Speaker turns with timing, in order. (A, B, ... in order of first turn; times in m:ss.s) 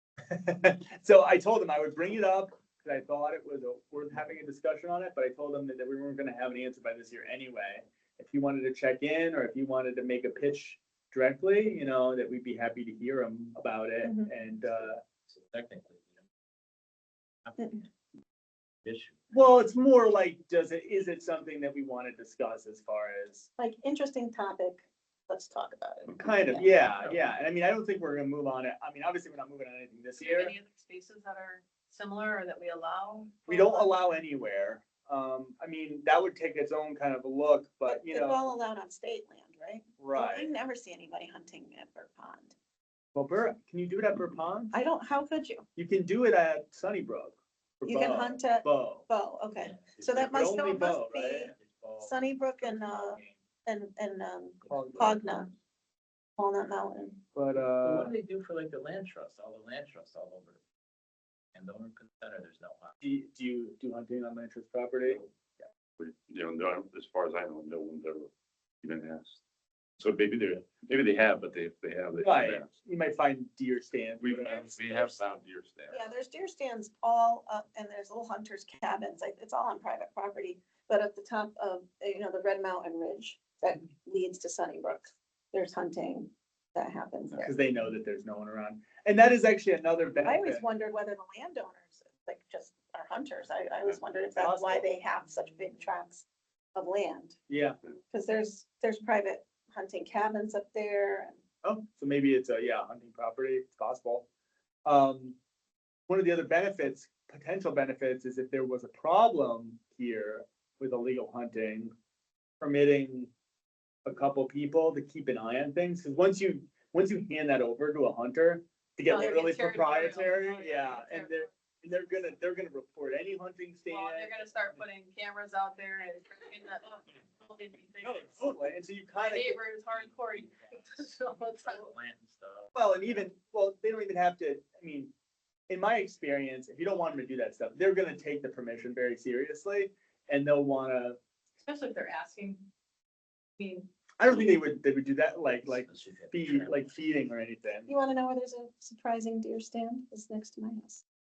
0:00.3-0:15.0 A
0:14.0-0:14.3 B
0:14.6-0:16.3 C
0:17.4-0:17.9 C
0:18.8-0:19.3 C
0:19.3-0:23.5 A
0:23.6-0:26.7 B
0:26.2-0:30.5 A
0:30.2-0:34.0 D
0:33.5-0:38.4 A
0:37.9-0:42.5 B
0:40.0-0:40.5 A
0:43.2-0:44.7 A
0:44.7-0:45.6 B
0:45.8-0:49.1 A
0:47.9-0:55.5 B
0:49.6-0:50.6 C
0:50.2-0:51.5 A
0:51.3-0:53.4 C
0:54.6-0:55.2 C
0:54.6-0:55.4 A
0:56.4-0:57.2 B
0:57.4-0:58.1 A
0:57.8-1:00.6 C
1:01.6-1:03.0 C
1:03.0-1:05.7 A
1:06.0-1:08.3 E
1:08.8-1:09.4 E
1:10.0-1:12.7 E
1:12.2-1:14.8 A
1:14.2-1:16.1 E
1:14.6-1:15.2 B
1:15.9-1:27.6 B
1:27.4-1:30.6 A
1:30.2-1:36.2 B
1:34.4-1:34.9 A
1:36.8-1:37.4 B
1:37.5-1:37.8 A
1:38.1-1:41.4 B
1:41.6-1:44.3 A
1:44.8-1:45.4 A
1:46.1-1:51.9 A
1:52.6-1:53.3 A
1:54.0-2:04.5 A
1:59.1-2:01.5 D
2:03.9-2:08.5 D
2:08.0-2:09.6 A
2:09.2-2:11.9 D
2:10.0-2:13.3 C
2:12.7-2:15.1 A
2:15.7-2:21.2 A
2:21.6-2:22.7 D
2:23.6-2:23.9 D
2:24.2-2:27.9 A
2:25.6-2:26.9 C
2:27.9-2:31.0 B